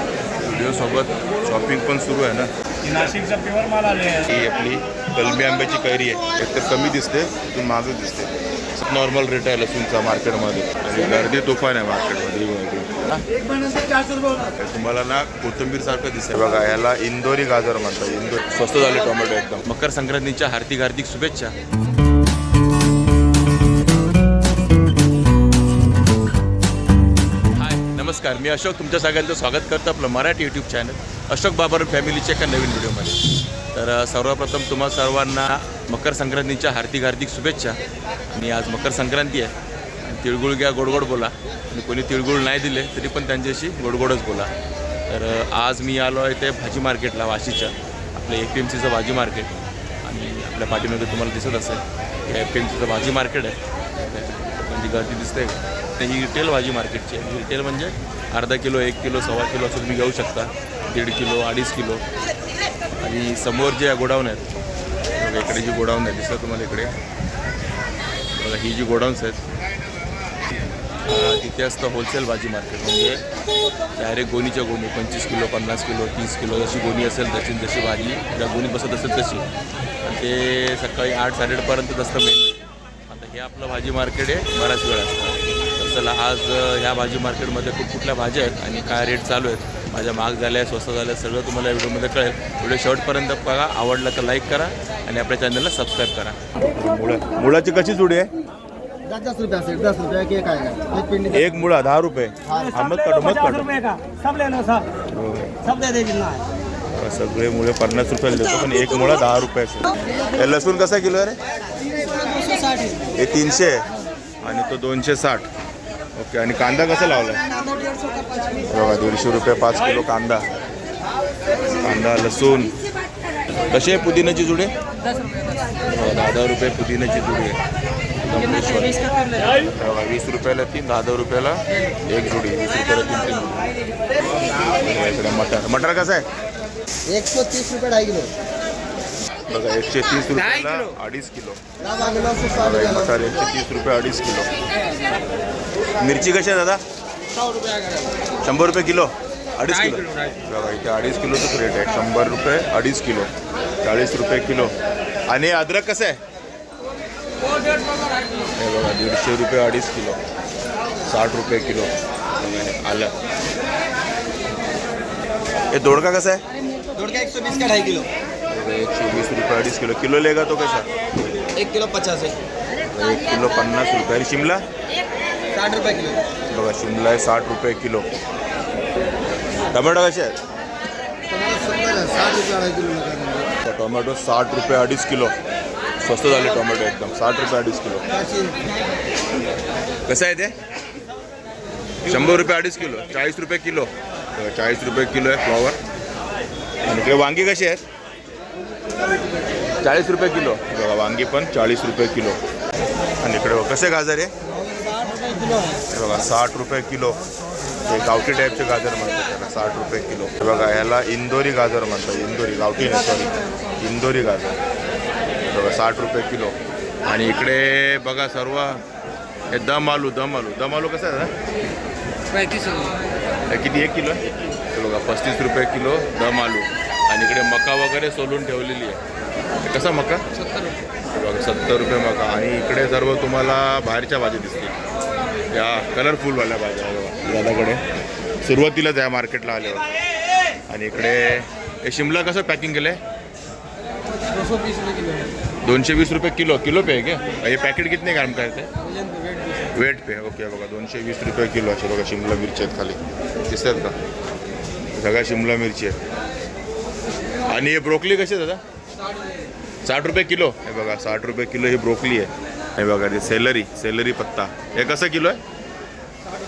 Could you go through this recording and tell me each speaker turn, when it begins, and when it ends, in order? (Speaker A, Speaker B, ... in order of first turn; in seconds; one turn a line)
Speaker A: 0.4-2.5
Speaker B: 2.8-4.2
Speaker A: 4.2-13.8
Speaker A: 14.4-21.5
Speaker A: 27.5-37.8
Speaker A: 38.3-44.5
Speaker A: 45.1-49.5
Speaker A: 50.0-62.0
Speaker A: 63.0-64.6
Speaker A: 65.1-66.9
Speaker A: 68.4-69.4
Speaker A: 71.0-73.2
Speaker A: 74.0-79.5
Speaker A: 80.0-98.3
Speaker C: 99.1-101.2
Speaker A: 101.2-103.9
Speaker B: 103.7-104.9
Speaker A: 105.0-105.7
Speaker C: 105.9-106.2
Speaker A: 106.9-111.4
Speaker C: 112.1-112.9
Speaker A: 113.1-113.9
Speaker A: 114.4-115.5
Speaker A: 116.2-117.4
Speaker A: 118.6-120.5
Speaker A: 121.8-122.8
Speaker A: 123.7-124.7
Speaker A: 125.8-127.6
Speaker A: 128.2-129.1
Speaker A: 129.6-133.7
Speaker A: 134.5-136.3
Speaker C: 137.1-138.3
Speaker A: 139.5-141.6
Speaker C: 141.9-142.4
Speaker A: 142.3-144.5
Speaker A: 146.0-146.8
Speaker C: 147.5-148.0
Speaker A: 148.4-153.3
Speaker C: 150.1-150.3
Speaker A: 153.8-154.7
Speaker A: 155.3-156.2
Speaker A: 158.6-160.2
Speaker A: 161.1-163.1
Speaker A: 165.7-166.4
Speaker C: 166.9-168.1
Speaker A: 168.5-170.9
Speaker C: 171.5-172.4
Speaker A: 172.9-174.6
Speaker C: 175.5-176.2
Speaker A: 176.5-178.1
Speaker A: 179.7-180.4
Speaker C: 181.3-183.5
Speaker A: 183.6-185.3
Speaker A: 186.0-188.1
Speaker C: 188.2-188.6
Speaker A: 190.1-190.6
Speaker A: 192.0-195.8
Speaker A: 196.8-197.8
Speaker A: 199.8-202.4
Speaker A: 203.2-204.3
Speaker C: 205.0-205.5
Speaker A: 205.9-207.2
Speaker A: 207.9-214.6
Speaker A: 215.4-218.8
Speaker A: 219.5-221.3
Speaker C: 222.4-223.0
Speaker A: 223.5-224.2
Speaker A: 224.7-229.0
Speaker A: 229.6-230.2
Speaker A: 231.1-234.8
Speaker A: 235.5-237.8
Speaker A: 238.4-239.9
Speaker A: 240.7-243.0
Speaker C: 244.5-245.3
Speaker A: 245.6-248.7
Speaker C: 249.0-249.4
Speaker A: 249.7-253.9
Speaker A: 254.9-256.0
Speaker A: 257.5-258.6
Speaker A: 259.8-265.4